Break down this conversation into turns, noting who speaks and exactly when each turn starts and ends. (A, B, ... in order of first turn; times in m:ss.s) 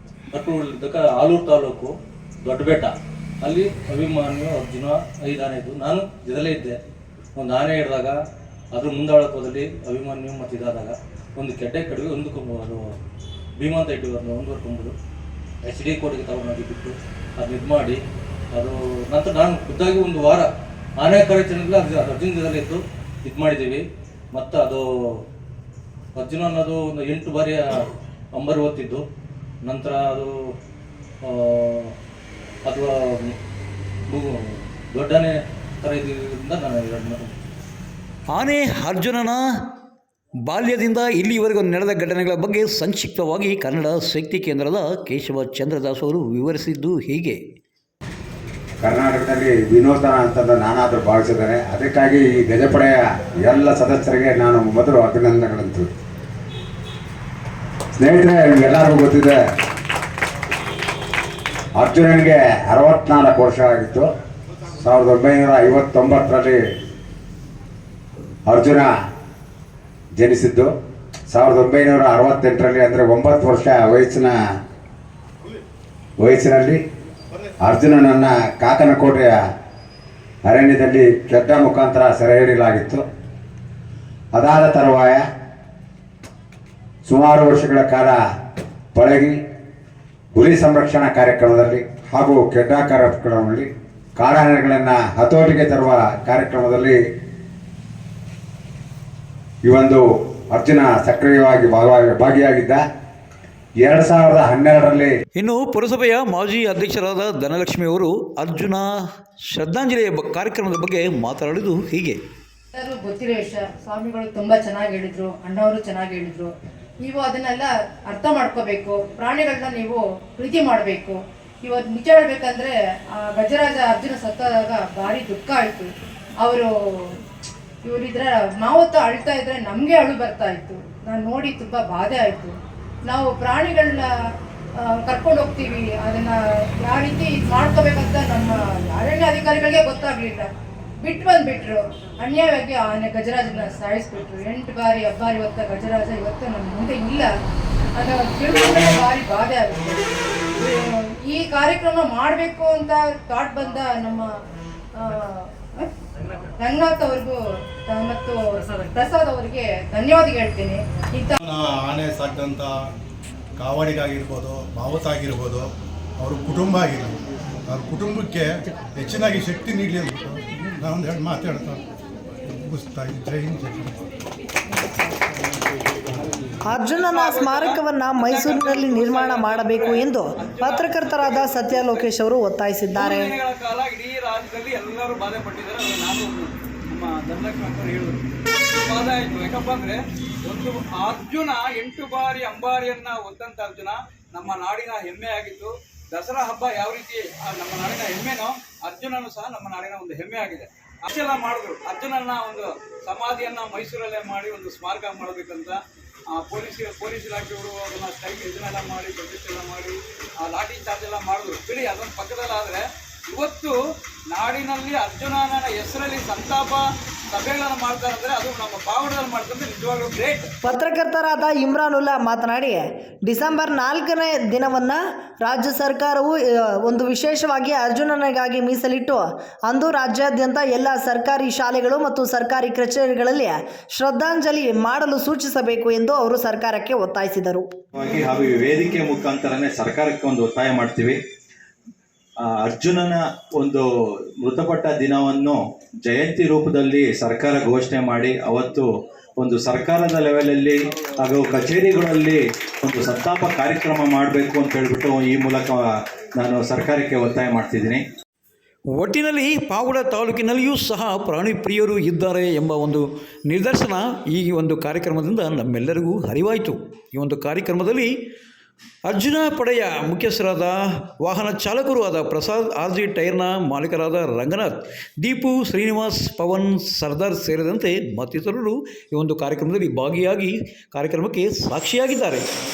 0:00.3-0:01.9 A
0:02.4-0:06.8 A
0:07.4-0:08.2 A
0:08.7-0:12.8 A
0:13.6-0:14.9 A
0:15.6-0:18.0 A
0:18.5-0:20.5 A
0:21.0-0:23.8 A
0:24.3-0:24.8 A
0:26.2-0:29.0 A
0:29.6-0:30.3 A
0:31.3-0:31.9 A
0:32.7-0:33.3 A
0:34.1-0:34.4 A
0:34.9-0:37.4 A
0:38.3-0:39.4 B
0:40.5-0:47.4 B
0:48.8-0:55.9 C
0:58.0-0:59.4 C
1:01.8-1:04.1 C
1:04.8-1:06.6 C
1:08.5-1:08.9 C
1:10.2-1:10.7 C
1:11.3-1:14.3 C
1:16.2-1:16.8 C
1:17.6-1:19.4 C
1:20.5-1:23.0 C
1:24.3-1:25.2 C
1:27.1-1:28.2 C
1:29.0-1:29.4 C
1:30.4-1:37.0 C
1:39.6-1:42.8 C
1:43.8-1:45.1 C
1:45.4-1:48.9 B
1:49.5-1:52.2 B
1:52.7-2:05.9 D
2:06.4-2:07.2 D
2:07.8-2:12.5 D
2:13.1-2:14.1 D
2:14.8-2:20.5 D
2:21.0-2:27.3 D
2:28.0-2:30.0 D
2:30.6-2:34.3 D
2:35.0-2:35.9 D
2:36.6-2:41.4 D
2:41.4-2:42.7 E
2:43.6-2:45.7 E
2:46.2-2:51.8 E
2:52.5-2:54.0 E
2:56.7-3:03.4 F
2:56.8-3:02.1 G
3:02.9-3:08.2 G
3:08.9-3:25.8 G
3:26.3-3:33.8 G
3:34.3-3:40.5 G
3:40.6-3:57.7 F
3:58.0-4:01.2 H
4:02.4-4:03.8 H
4:04.4-4:08.9 H
4:09.4-4:15.8 H
4:11.0-4:12.0 G
4:16.4-4:18.0 H
4:19.0-4:28.1 B
4:29.1-4:42.4 B